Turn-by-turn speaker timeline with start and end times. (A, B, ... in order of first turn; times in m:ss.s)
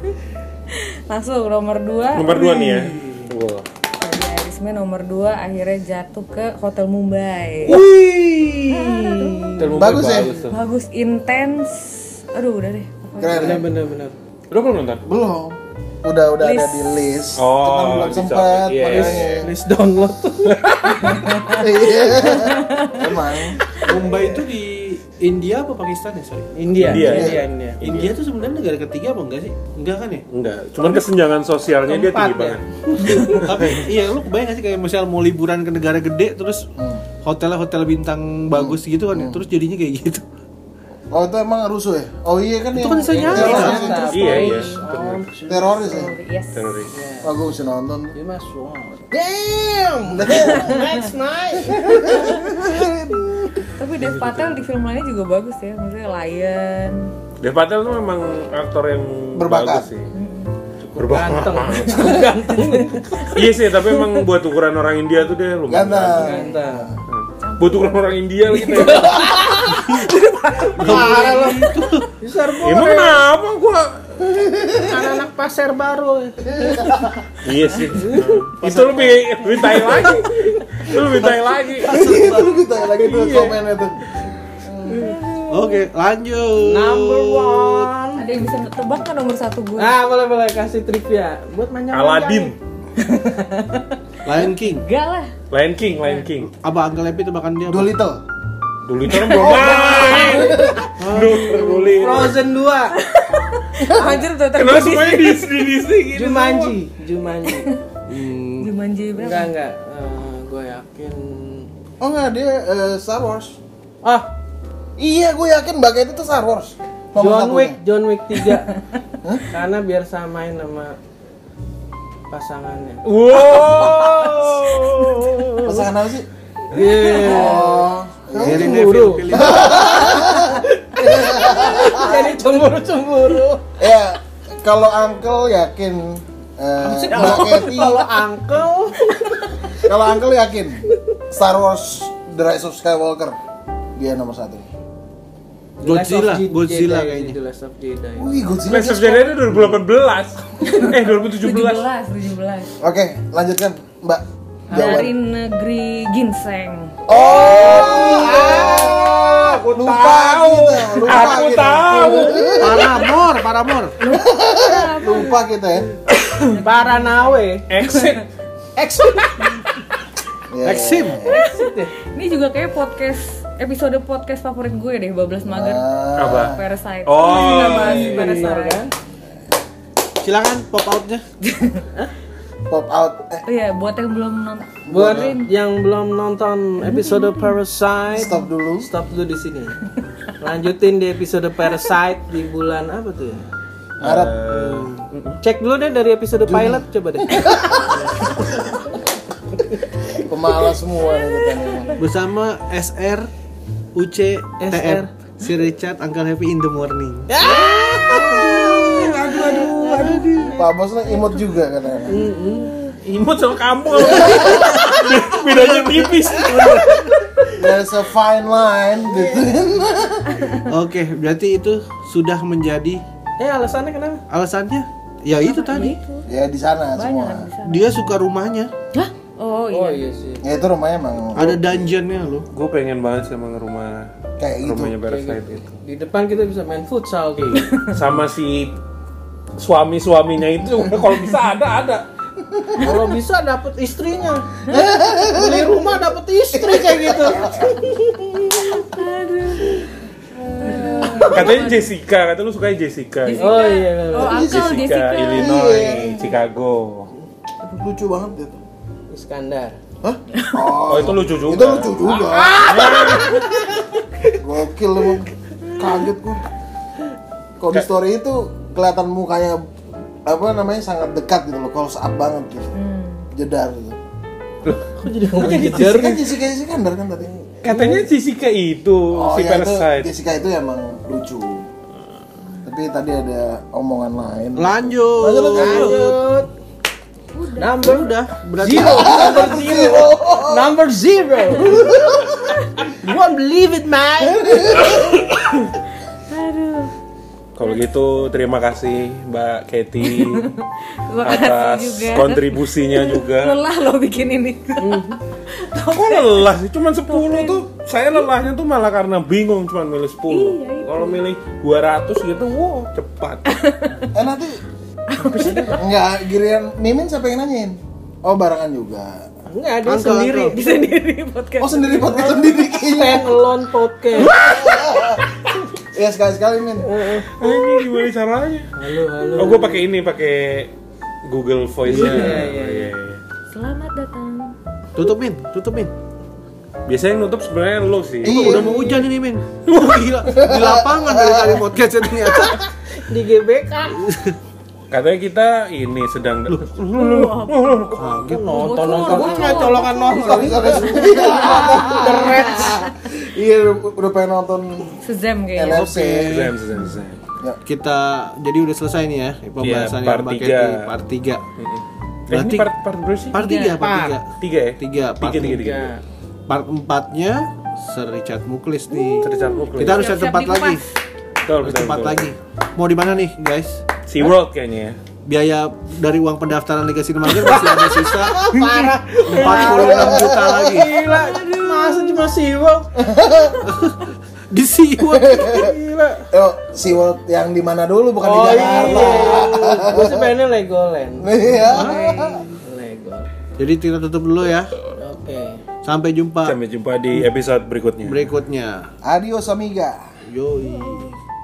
0:00.7-0:02.9 A
0:02.1-0:03.6 B
0:04.0-0:07.8 A
0:07.6-0:09.7 C
0:08.7-0:09.8 A
0:09.6-0:10.6 B
0:09.8-0:10.4 D
0:10.5-0:13.6 A
0:13.2-0:13.7 D
0:13.3-0:14.2 C
0:14.5-0:15.0 B
0:15.0-0:19.5 D
0:16.4-0:17.2 A
0:17.4-0:19.5 B
0:18.9-0:21.2 C
0:20.4-0:21.3 B
0:21.0-0:23.1 A
0:21.5-0:23.6 D
0:23.8-0:26.5 E
0:26.5-0:27.8 C
0:26.8-0:28.2 B
0:27.0-0:27.4 D
0:27.8-0:30.2 E
0:30.3-0:33.9 B
0:31.8-0:33.5 C
0:33.3-0:36.7 E
0:36.8-0:37.0 D
0:37.2-0:40.2 E
0:38.5-0:39.4 D
0:41.1-0:44.1 D
0:42.7-0:44.0 E
0:42.8-0:46.0 C
0:43.5-0:44.8 A
0:44.1-0:45.3 B
0:45.5-0:46.2 D
0:45.8-0:46.8 A
0:46.5-0:46.9 B
0:46.9-0:47.3 C
0:47.2-0:48.2 D
0:48.1-0:53.5 C
0:50.1-0:50.8 D
0:51.9-0:52.9 D
0:52.1-0:52.5 A
0:53.8-0:57.1 A
0:54.0-0:54.6 B
0:57.4-1:00.1 B
0:59.4-0:59.9 D
1:00.1-1:00.5 A
1:00.9-1:03.2 C
1:01.0-1:02.7 B
1:02.7-1:03.4 A
1:03.2-1:06.4 B
1:05.7-1:07.0 D
1:06.2-1:06.9 C
1:07.1-1:09.3 B
1:07.4-1:08.0 A
1:08.6-1:11.9 A
1:08.8-1:09.9 C
1:10.8-1:13.2 C
1:10.8-1:12.1 E
1:10.8-1:11.3 B
1:12.6-1:14.2 B
1:14.2-1:15.1 D
1:14.8-1:16.7 C
1:16.5-1:17.2 D
1:17.4-1:22.0 B
1:18.0-1:18.5 C
1:18.6-1:19.1 E
1:21.0-1:22.6 E
1:21.9-1:25.1 D
1:23.0-1:23.6 C
1:24.9-1:25.4 A
1:24.9-1:25.2 C
1:25.5-1:27.9 E
1:26.6-1:28.3 C
1:28.2-1:30.0 A
1:29.8-1:32.6 C
1:31.9-1:32.6 B
1:33.0-1:35.3 A
1:34.2-1:34.9 E
1:35.5-1:36.5 B
1:36.4-1:38.0 E
1:37.7-1:38.2 D
1:38.9-1:42.4 B
1:39.2-1:40.9 D
1:39.4-1:40.3 E
1:39.9-1:43.0 C
1:40.2-1:40.7 A
1:41.0-1:42.0 E
1:42.9-1:45.7 A
1:43.8-1:44.2 D
1:44.5-1:46.8 B
1:46.1-1:47.7 C
1:47.5-1:47.8 A
1:48.1-1:48.7 E
1:48.6-1:49.5 A
1:49.2-1:51.7 C
1:52.0-1:53.6 D
1:54.0-1:54.3 C
1:55.0-1:57.8 D
1:57.2-1:58.7 C
1:59.5-2:01.0 C
2:02.3-2:03.0 C
2:03.0-2:05.6 B
2:05.6-2:06.3 D
2:06.7-2:13.6 C
2:06.8-2:07.2 B
2:07.2-2:12.3 D
2:07.3-2:07.7 A
2:08.4-2:10.2 E
2:13.8-2:18.1 D
2:16.8-2:19.5 C
2:17.0-2:17.7 E
2:19.8-2:23.4 D
2:24.0-2:24.7 D
2:25.8-2:28.4 C
2:25.8-2:27.4 E
2:28.2-2:29.8 D
2:28.7-2:31.9 B
2:30.6-2:32.7 A
2:32.8-2:35.1 D
2:34.7-2:35.1 C
2:34.7-2:37.0 A
2:37.1-2:42.5 B
2:37.1-2:43.1 D
2:37.1-2:38.9 C
2:42.6-2:44.0 E
2:44.0-2:45.4 A
2:44.1-2:45.9 D
2:46.2-2:48.2 A
2:46.6-2:47.7 C
2:47.7-2:48.2 B
2:48.8-2:49.6 C
2:50.5-2:51.3 D
2:50.6-2:51.2 E
2:51.3-2:51.9 C
2:51.3-2:55.9 A
2:55.5-2:56.6 D
2:56.2-2:58.5 B
2:56.4-2:58.8 A
2:57.5-2:58.9 C
3:00.2-3:01.2 E
3:01.4-3:01.8 A
3:02.7-3:03.4 D
3:03.5-3:05.3 A
3:04.9-3:05.4 D
3:04.9-3:09.8 C
3:06.8-3:07.6 A
3:08.1-3:08.9 D
3:10.4-3:13.5 C
3:14.0-3:14.4 D
3:14.0-3:15.4 B
3:15.4-3:18.4 C
3:16.4-3:17.9 D
3:20.2-3:22.0 D
3:22.0-3:23.3 E
3:24.0-3:30.6 E
3:24.6-3:25.1 C
3:27.3-3:30.6 C
3:28.5-3:28.9 D
3:30.6-3:32.3 D
3:32.1-3:32.7 C
3:32.7-3:32.9 A
3:33.0-3:37.3 B
3:34.1-3:34.7 D
3:36.4-3:37.1 C
3:36.4-3:36.8 E
3:37.6-3:40.5 D
3:40.4-3:40.6 A
3:40.7-3:43.0 E
3:43.4-3:44.2 C
3:44.3-3:46.0 E
3:45.4-3:46.3 A
3:46.3-3:47.5 D
3:47.0-3:48.2 A
3:47.6-3:48.7 E
3:48.9-3:50.0 A
3:49.7-3:50.4 C
3:50.4-3:51.8 D
3:51.4-3:52.5 E
3:52.5-3:54.1 B
3:54.4-3:55.0 D
3:54.6-3:55.8 B
3:55.1-3:57.8 C
3:57.9-3:58.8 B
3:59.6-4:02.0 B
4:02.8-4:04.5 C
4:04.7-4:05.8 D
4:05.3-4:08.8 C
4:06.5-4:07.7 D
4:08.5-4:09.9 A
4:10.6-4:11.9 A
4:10.6-4:11.6 C
4:11.3-4:13.7 B
4:13.3-4:15.6 A
4:13.4-4:14.5 C
4:14.2-4:14.7 D
4:14.3-4:17.1 B
4:15.3-4:16.3 D
4:17.6-4:18.6 D
4:19.1-4:19.8 C
4:20.0-4:23.4 D
4:20.8-4:23.5 B
4:24.4-4:26.4 D
4:27.6-4:29.7 D
4:30.3-4:32.7 D
4:32.8-4:33.3 A
4:33.4-4:34.0 D
4:34.8-4:36.3 C
4:35.4-4:35.9 B
4:35.5-4:37.3 D
4:37.6-4:40.1 B
4:37.6-4:38.1 C
4:39.1-4:41.7 D
4:42.6-4:46.1 D
4:44.6-4:46.2 E
4:45.5-4:46.5 C
4:47.3-4:48.3 A
4:47.6-4:51.9 C
4:48.3-4:49.6 E
4:48.6-4:50.7 D
4:51.7-4:52.3 D
4:52.9-4:54.9 C
4:54.9-4:55.5 B
4:56.3-4:56.9 A
4:57.6-5:00.5 B
5:00.0-5:06.5 A
5:01.2-5:03.6 B
5:04.8-5:05.2 C
5:05.8-5:13.5 B
5:07.1-5:07.7 A
5:10.3-5:11.2 A
5:13.5-5:14.1 A
5:14.1-5:14.6 D
5:15.1-5:15.9 A
5:15.4-5:15.7 B
5:15.4-5:19.3 D
5:19.5-5:20.7 C
5:19.8-5:20.6 E
5:20.5-5:22.5 A
5:21.6-5:23.4 D
5:22.9-5:24.3 C
5:24.2-5:25.2 D
5:25.9-5:26.9 D
5:26.8-5:27.3 C
5:27.3-5:28.7 B
5:28.8-5:29.8 C
5:29.4-5:30.7 B
5:31.2-5:33.2 B
5:31.9-5:32.9 C
5:31.9-5:32.4 E
5:31.9-5:32.5 A
5:33.5-5:34.6 A
5:35.0-5:35.9 E
5:36.9-5:38.7 B
5:38.2-5:42.7 E
5:38.2-5:39.0 D
5:40.3-5:41.7 D
5:43.0-5:44.0 C
5:44.0-5:44.4 E
5:44.9-5:48.3 B
5:46.5-5:46.8 E
5:46.9-5:52.9 A
5:48.0-5:49.2 E
5:48.3-5:52.8 C
5:49.0-5:49.9 B
5:50.2-5:55.0 D
5:55.0-5:55.9 A
5:55.6-5:56.5 D
5:55.7-5:56.6 E
5:56.2-5:57.2 B
5:57.6-6:01.4 E
5:59.6-6:00.9 B
6:01.6-6:03.4 B
6:02.3-6:02.7 E
6:03.3-6:05.6 E
6:03.4-6:03.9 A
6:03.7-6:04.2 C
6:04.4-6:05.9 B
6:05.3-6:06.0 C
6:06.5-6:10.8 E
6:08.9-6:10.9 A
6:09.2-6:10.1 B
6:11.4-6:12.3 B
6:11.6-6:13.8 E
6:14.1-6:15.0 B
6:15.2-6:21.0 E
6:17.5-6:22.9 C
6:18.6-6:20.8 D
6:19.4-6:20.0 B
6:21.1-6:22.3 A
6:23.0-6:23.6 D
6:23.6-6:25.7 E
6:25.1-6:25.7 D
6:25.5-6:26.3 C
6:26.3-6:30.3 D
6:28.2-6:33.3 C
6:28.8-6:29.1 E
6:31.2-6:32.4 D
6:31.6-6:32.5 A
6:33.6-6:34.8 E
6:34.9-6:35.6 C
6:35.8-6:36.6 E
6:36.4-6:38.3 B
6:38.0-6:38.9 E
6:39.0-6:40.0 D
6:40.3-6:41.2 E